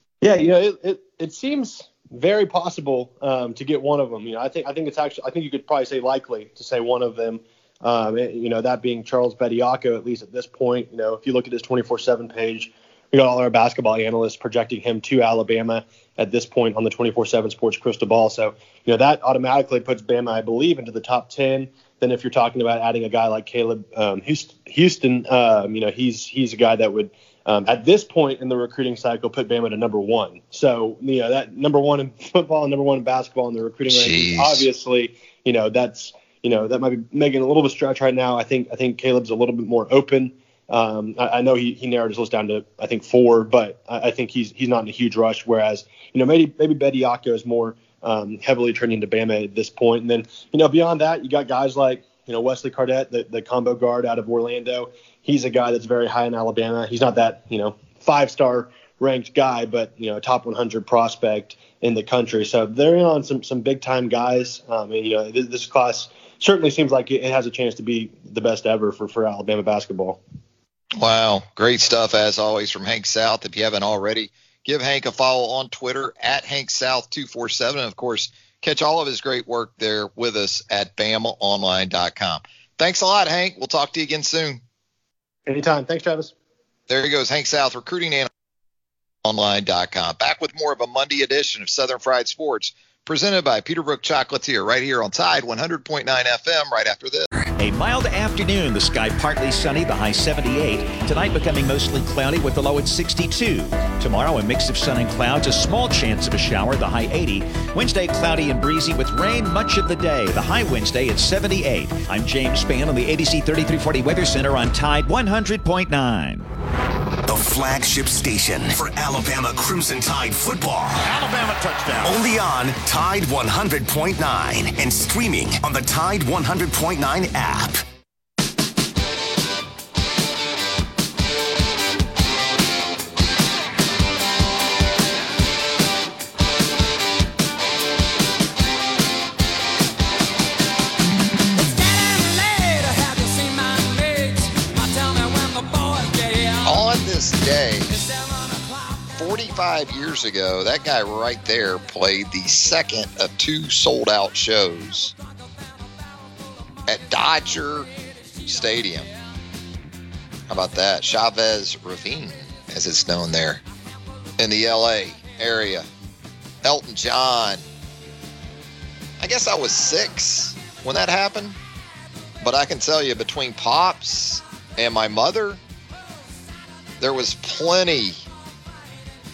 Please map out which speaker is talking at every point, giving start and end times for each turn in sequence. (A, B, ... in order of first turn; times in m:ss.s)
0:00.2-1:10.2 A
0:33.9-0:34.7 B
1:11.0-1:24.6 B
1:25.5-1:26.3 A
1:26.9-1:28.3 B
1:29.2-1:37.3 B
1:37.6-1:56.5 C
1:57.3-2:01.3 D
2:01.1-2:02.1 E
2:01.9-2:07.8 D
2:21.5-2:26.8 E
2:26.6-2:28.0 B
2:27.9-2:29.1 E
2:29.1-2:35.1 B
2:36.9-2:37.9 B
2:38.4-2:39.1 B
2:40.5-2:43.6 B
2:44.4-2:45.9 B
2:46.6-2:47.6 B
2:49.2-2:51.6 B
2:52.4-2:55.6 B
2:57.0-2:58.2 B